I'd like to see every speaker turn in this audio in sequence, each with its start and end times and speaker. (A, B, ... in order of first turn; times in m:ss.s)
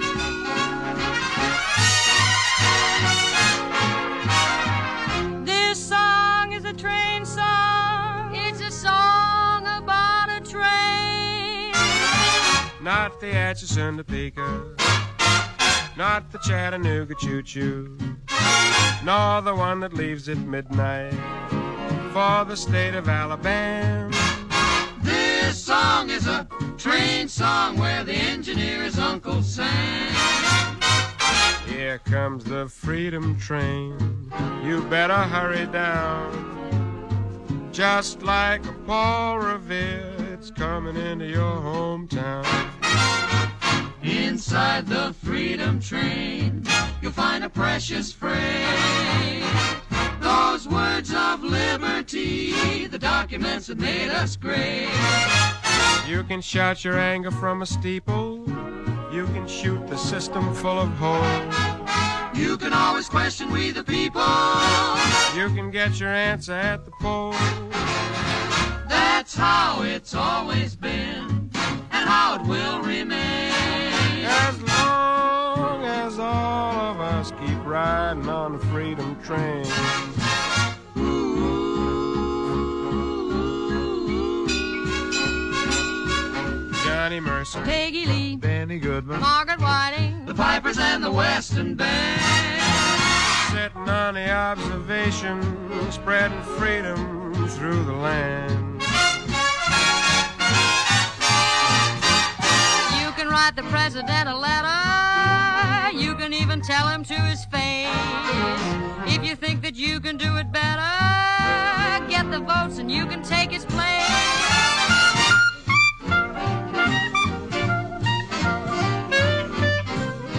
0:05.4-0:11.9 A
0:12.8-0:14.8 B
0:16.0-0:18.2 B
0:19.0-0:21.4 B
0:22.1-0:24.3 B
0:25.0-0:30.4 C
0:31.6-0:36.6 B
0:37.7-0:42.7 B
0:44.0-0:49.6 C
0:50.2-0:55.2 C
0:56.0-1:01.7 B
1:02.3-1:05.2 C
1:05.3-1:07.8 B
1:08.8-1:14.2 C
1:14.2-1:19.9 B
1:26.8-1:27.8 B
1:27.9-1:28.4 A
1:28.4-1:29.3 B
1:29.3-1:30.3 A
1:30.2-1:32.9 C
1:33.4-1:38.9 B
1:43.0-1:54.4 A